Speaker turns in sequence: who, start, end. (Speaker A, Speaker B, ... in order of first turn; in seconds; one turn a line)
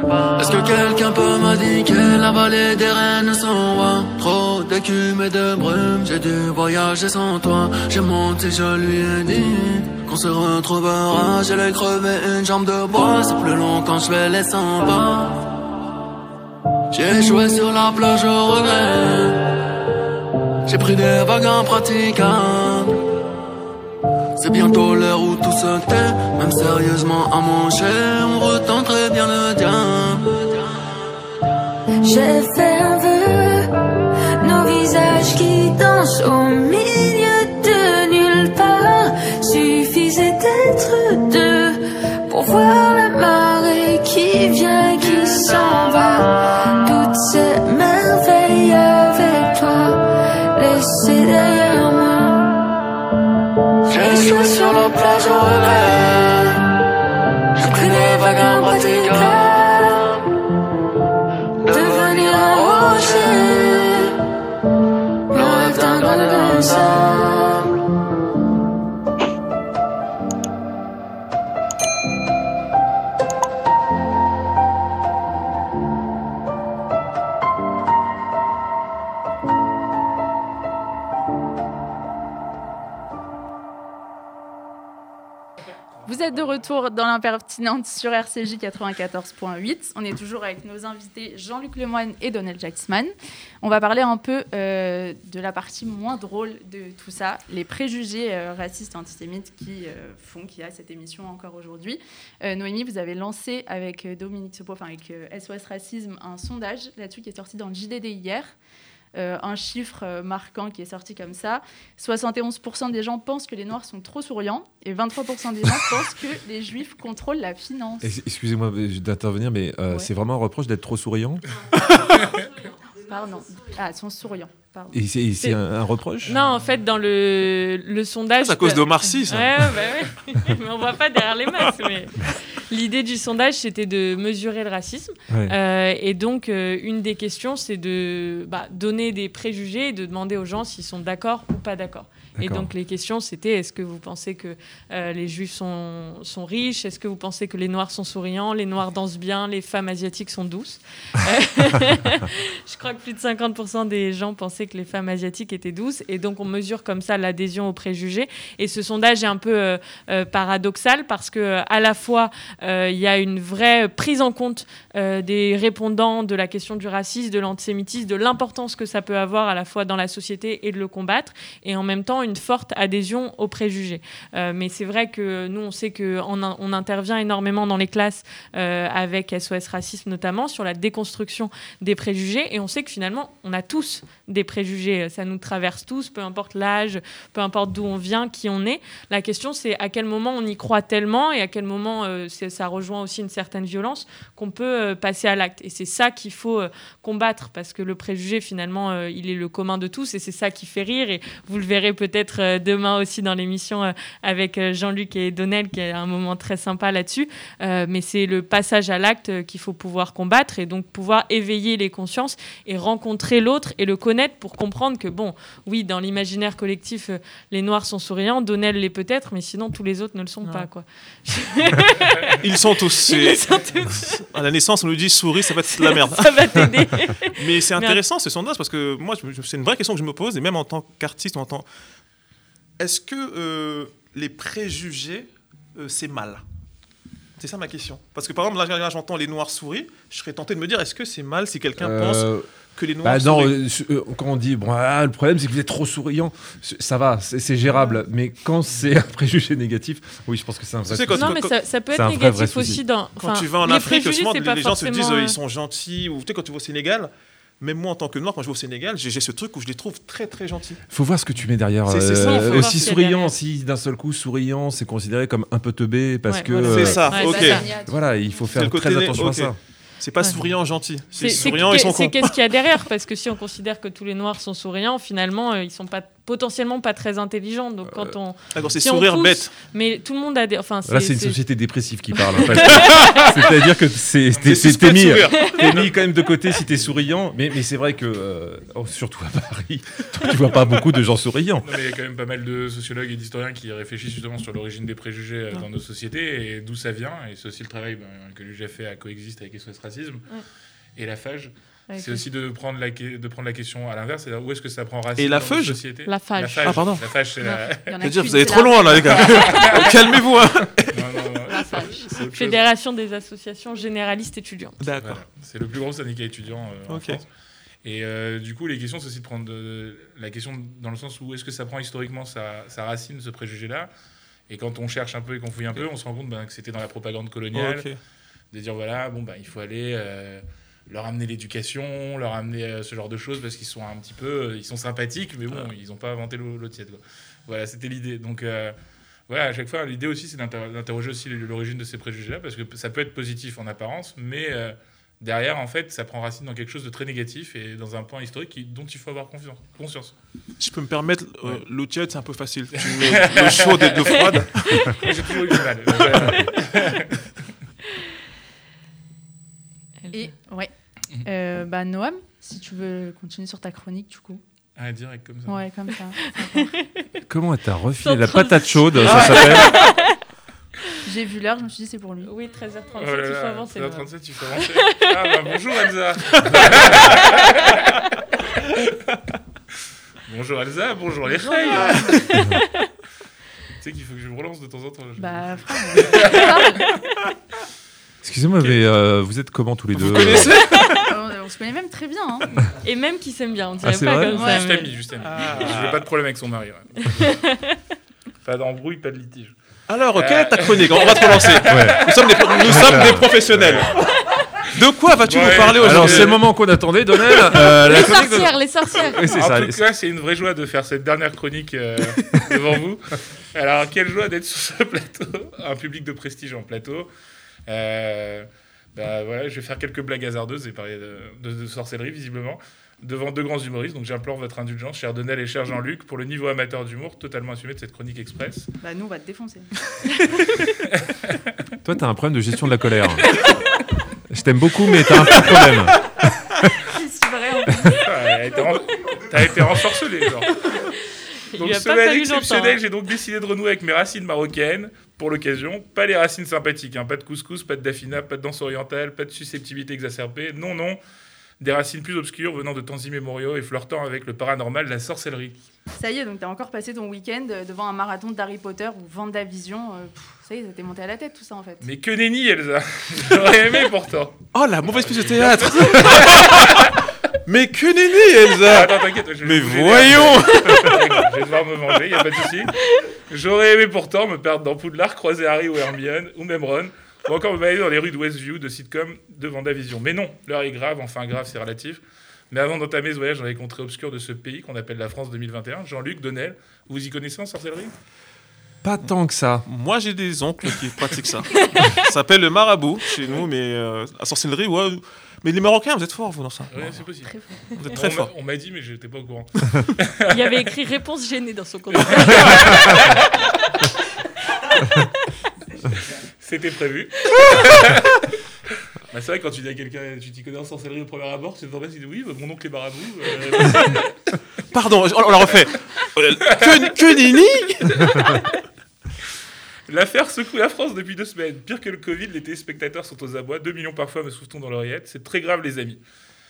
Speaker A: 0.2-15.4
Speaker A: 16.9-19.5
Speaker A: 20.6-23.0
Speaker A: 24.4-30.6
Speaker B: 32.0-33.7
Speaker B: 34.4-52.5
Speaker A: 45.0-46.2
Speaker A: 53.9-56.6
Speaker B: 53.9-55.5
Speaker A: 57.5-60.2
Speaker B: 57.6-60.0
Speaker A: 61.6-63.9
Speaker B: 61.7-64.1
Speaker B: 65.3-67.6
Speaker A: 65.3-67.7
Speaker C: 86.0-108.5
Speaker C: 109.1-118.1
Speaker D: 118.0-121.4
Speaker E: 122.2-122.5
Speaker C: 123.0-125.0
Speaker D: 124.9-126.3
Speaker E: 126.2-222.4
Speaker F: 128.4-129.7
Speaker D: 142.4-142.7
Speaker F: 222.4-226.7
Speaker E: 223.0-224.2
Speaker E: 225.7-228.0
Speaker F: 227.4-231.7
Speaker F: 232.8-236.4
Speaker F: 237.4-243.6
Speaker D: 241.8-242.5
Speaker D: 243.0-252.8
Speaker F: 250.8-251.6
Speaker E: 251.1-255.4
Speaker F: 253.2-260.8
Speaker D: 260.9-269.6
Speaker F: 261.9-262.9
Speaker E: 262.1-263.3
Speaker E: 266.3-267.6
Speaker F: 266.6-267.6
Speaker C: 266.7-268.6
Speaker F: 268.5-272.3
Speaker E: 270.2-270.5
Speaker E: 271.2-281.4
Speaker D: 277.8-278.2
Speaker F: 278.5-279.6
Speaker D: 280.9-291.7
Speaker E: 282.2-283.2
Speaker G: 284.3-284.6
Speaker F: 284.4-285.9
Speaker G: 291.6-300.2
Speaker G: 300.9-307.9
Speaker E: 301.9-302.2
Speaker F: 305.2-305.9
Speaker E: 306.0-306.9
Speaker F: 306.6-307.1
Speaker E: 307.4-307.7
Speaker C: 307.9-309.6
Speaker F: 308.0-311.2
Speaker G: 309.1-309.9
Speaker E: 309.6-309.9
Speaker G: 310.9-312.6
Speaker E: 311.5-314.8
Speaker F: 314.8-315.2
Speaker G: 315.0-317.3
Speaker F: 316.9-317.2
Speaker G: 317.8-323.9
Speaker G: 324.5-327.9
Speaker F: 327.5-328.0
Speaker G: 328.5-338.7
Speaker G: 339.3-350.1
Speaker F: 350.6-356.5
Speaker G: 352.8-354.4
Speaker G: 354.9-357.2
Speaker C: 360.1-360.7
Speaker C: 361.2-364.4
Speaker G: 364.8-365.7
Speaker C: 365.5-366.7
Speaker E: 366.6-367.0
Speaker D: 367.3-369.9
Speaker E: 368.0-370.2
Speaker C: 371.0-372.3
Speaker E: 372.2-375.1
Speaker G: 372.9-377.8
Speaker F: 376.5-376.9
Speaker G: 380.2-382.2
Speaker E: 381.6-382.8
Speaker G: 383.8-386.9
Speaker C: 385.2-386.9
Speaker D: 388.2-390.6
Speaker F: 389.9-391.0
Speaker C: 391.0-392.5
Speaker E: 392.8-394.9
Speaker D: 393.8-394.4
Speaker C: 394.3-394.8
Speaker G: 394.4-397.3
Speaker F: 395.2-396.1
Speaker E: 397.0-397.8
Speaker G: 398.4-399.5
Speaker F: 399.9-406.4
Speaker G: 400.1-403.0
Speaker D: 401.6-402.1
Speaker D: 402.6-403.9
Speaker G: 405.2-406.4
Speaker D: 405.8-409.8
Speaker E: 407.3-409.3
Speaker G: 409.3-417.1
Speaker G: 417.7-428.7
Speaker C: 428.8-429.7
Speaker G: 430.9-431.4
Speaker D: 431.8-433.3
Speaker D: 434.3-436.0
Speaker C: 436.9-438.1
Speaker G: 438.0-440.6
Speaker E: 441.5-442.8
Speaker G: 441.6-451.0
Speaker G: 451.6-455.6
Speaker C: 456.0-461.9
Speaker G: 461.8-464.4
Speaker F: 464.5-471.3
Speaker G: 465.1-466.9
Speaker G: 468.6-472.7
Speaker G: 473.3-487.9
Speaker D: 488.8-489.6
Speaker F: 489.7-497.0
Speaker E: 491.5-492.1
Speaker G: 496.7-497.3
Speaker C: 497.2-497.6
Speaker F: 497.7-498.3
Speaker G: 497.9-500.6
Speaker E: 500.3-503.0
Speaker G: 501.9-503.2
Speaker G: 506.4-508.1
Speaker G: 509.1-514.1
Speaker F: 514.7-518.0
Speaker G: 516.5-517.0
Speaker G: 519.9-526.0